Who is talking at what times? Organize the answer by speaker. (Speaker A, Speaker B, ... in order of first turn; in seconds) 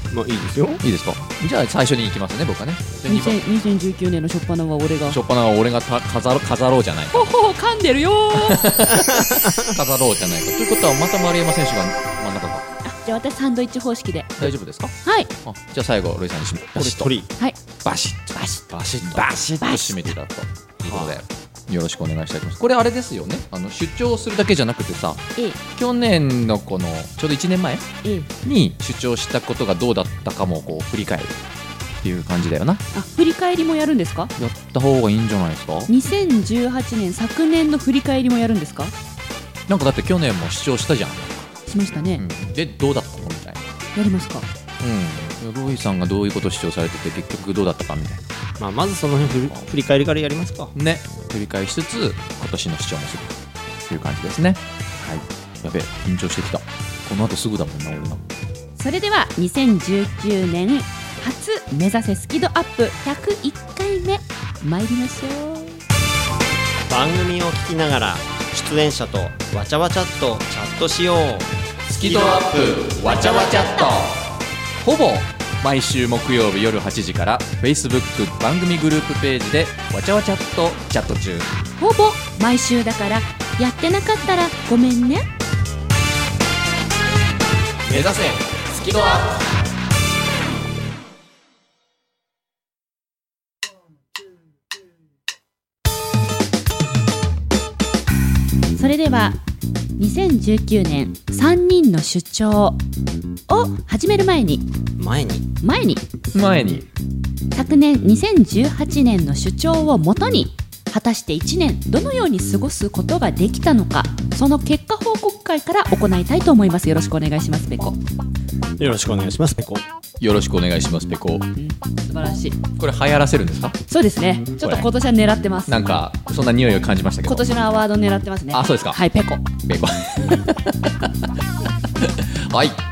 Speaker A: 0.1-0.8, 9.1-9.7, 16.8-17.3, 18.9-19.3, 20.8-21.2, 48.6-50.7, 66.9-71.5, 72.0-73.1, 105.0-105.5, 118.8-119.8
Speaker B: 0.8-3.4, 5.1-7.3, 8.3-12.7, 14.4-17.1, 17.8-27.9, 28.4-31.4, 32.0-32.8, 34.4-35.9, 39.7-41.5, 42.2-43.6, 44.8-48.2, 50.7-58.2, 71.9-74.2, 74.8-81.5, 87.8-89.5, 106.3-106.9, 120.2-121.5, 122.8-123.8, 125.7-127.5, 128.5-129.0, 129.6-131.3, 132.0-132.8
Speaker C: 3.0-5.2, 7.1-8.7, 12.8-14.5, 15.0-15.3, 19.6-20.0, 32.9-34.3, 35.9-38.9, 41.7-42.2, 43.9-44.5, 58.8-65.8, 81.8-85.3, 98.8-99.4, 100.0-102.8, 103.5-104.7, 105.6-106.0, 107.5-118.0, 121.6-122.6, 123.9-125.8, 127.2-129.5